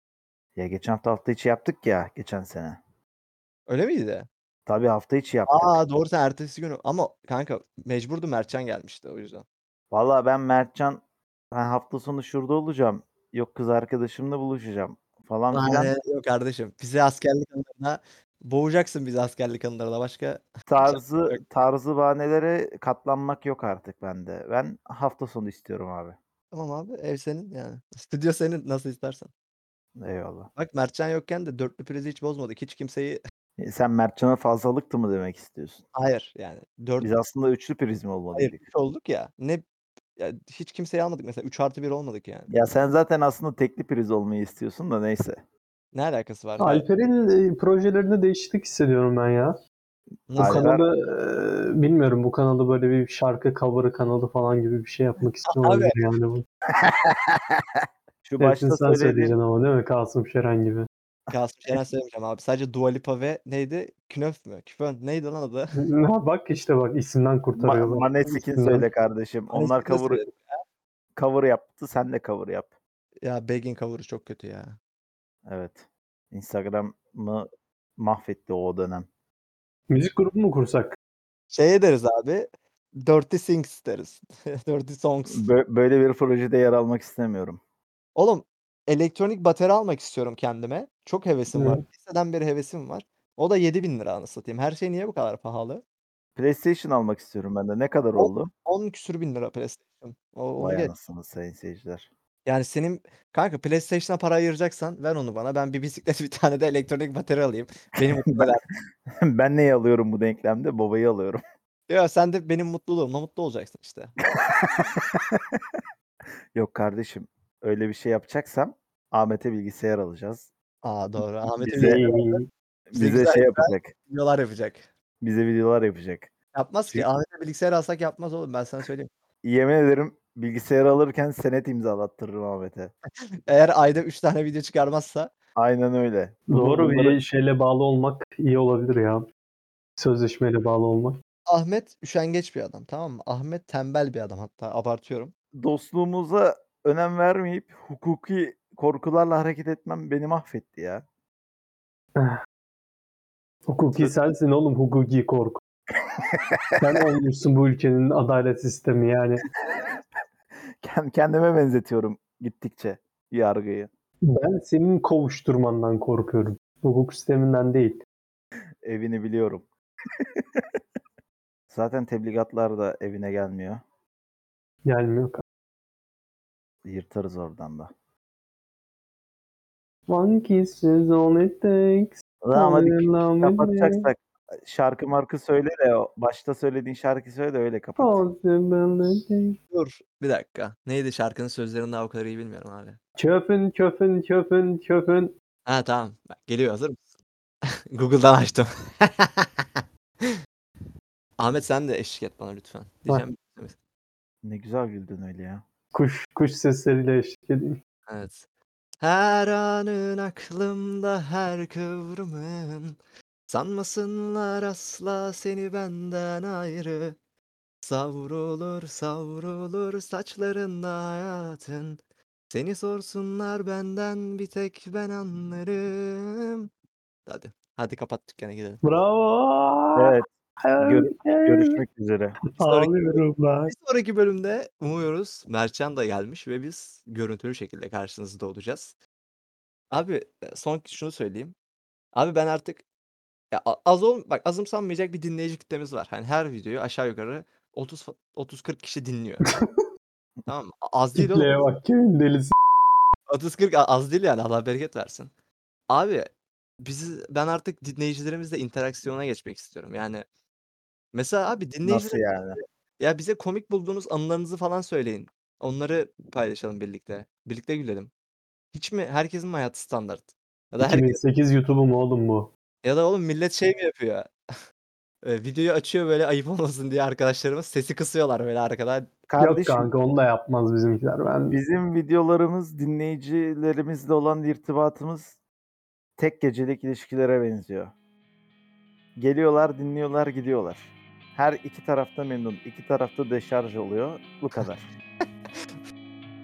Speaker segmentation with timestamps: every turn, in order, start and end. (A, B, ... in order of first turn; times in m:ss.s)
0:00.6-0:02.8 A
0:03.7-0:04.3 B
0:04.7-0:05.8 A
0:05.5-0:09.4 B
0:09.9-0:15.9 A
0:15.5-0:21.4 B
0:20.7-0:26.2 A
0:26.5-0:29.3 B
0:30.0-0:30.5 A
0:30.6-0:33.2 B
0:33.6-0:35.8 A
0:36.0-0:37.1 B
0:37.0-0:38.6 A
0:38.4-0:39.6 B
0:40.2-0:42.5 B
0:42.5-0:45.4 A
0:45.9-0:46.9 B
0:46.6-0:49.6 C
0:50.3-0:50.7 B
0:50.4-0:50.9 A
0:50.4-0:56.4 C
0:55.5-0:56.0 B
0:56.7-0:59.4 A
0:58.4-1:00.9 C
1:01.3-1:05.8 B
1:05.8-1:08.9 C
1:07.6-1:10.3 A
1:09.5-1:10.6 B
1:11.2-1:12.7 A
1:13.2-1:14.8 B
1:15.5-1:19.1 A
1:19.9-1:21.0 C
1:21.5-1:25.4 B
1:25.3-1:27.6 A
1:28.2-1:35.8 B
1:31.5-1:31.8 C
1:36.4-1:38.5 A
1:38.2-1:40.9 B
1:40.6-1:42.1 A
1:42.5-1:48.7 B
1:49.2-1:51.4 A
1:51.9-1:54.2 B
1:54.4-1:55.8 A
1:56.6-2:00.5 A
2:00.8-2:02.4 B
2:01.6-2:02.0 A
2:01.8-2:02.4 C
2:02.9-2:03.9 A
2:02.9-2:04.9 B
2:05.2-2:06.3 A
2:06.5-2:09.1 B
2:09.4-2:12.9 A
2:13.5-2:15.3 B
2:15.6-2:17.2 A
2:16.5-2:19.3 C
2:20.0-2:21.2 C
2:21.5-2:25.3 B
2:25.6-2:31.0 A
2:33.7-2:35.6 C
2:36.2-2:36.8 A
2:36.8-2:39.4 C
2:39.7-2:40.0 A
2:40.8-2:43.9 A
2:44.2-2:48.0 C
2:48.8-2:49.7 A
2:50.2-2:50.8 A
2:51.7-2:53.8 A
2:54.9-2:55.4 C
2:56.8-2:57.9 A
3:00.1-3:04.1 C
3:02.4-3:08.2 A
3:08.0-3:09.6 C
3:09.7-3:13.0 B
3:13.2-3:15.3 C
3:15.7-3:17.0 B
3:17.9-3:20.3 B
3:21.4-3:23.8 B
3:24.4-3:25.6 A
3:25.9-3:27.8 C
3:28.1-3:28.5 B
3:29.0-3:37.2 B
3:37.8-3:42.0 B
3:42.5-3:46.7 B
3:47.3-3:48.8 B
3:48.8-3:51.8 C
3:50.0-3:50.3 A
3:50.8-3:52.4 A
3:52.5-3:53.7 C
3:52.6-3:58.9 B
3:59.9-4:01.6 B
4:02.2-4:02.8 B
4:03.5-4:09.4 B
4:10.5-4:11.6 B
4:11.2-4:12.6 C
4:13.3-4:15.3 B
4:15.9-4:16.3 B
4:16.8-4:20.2 B
4:21.1-4:22.3 B
4:21.8-4:22.6 A
4:23.0-4:28.1 B
4:28.7-4:31.2 B
4:30.8-4:32.5 C
4:32.8-4:34.3 B
4:35.2-4:39.2 B
4:39.3-4:39.9 A
4:39.4-4:41.6 C
4:41.5-4:45.4 A
4:46.2-4:47.9 A
4:49.2-4:54.9 A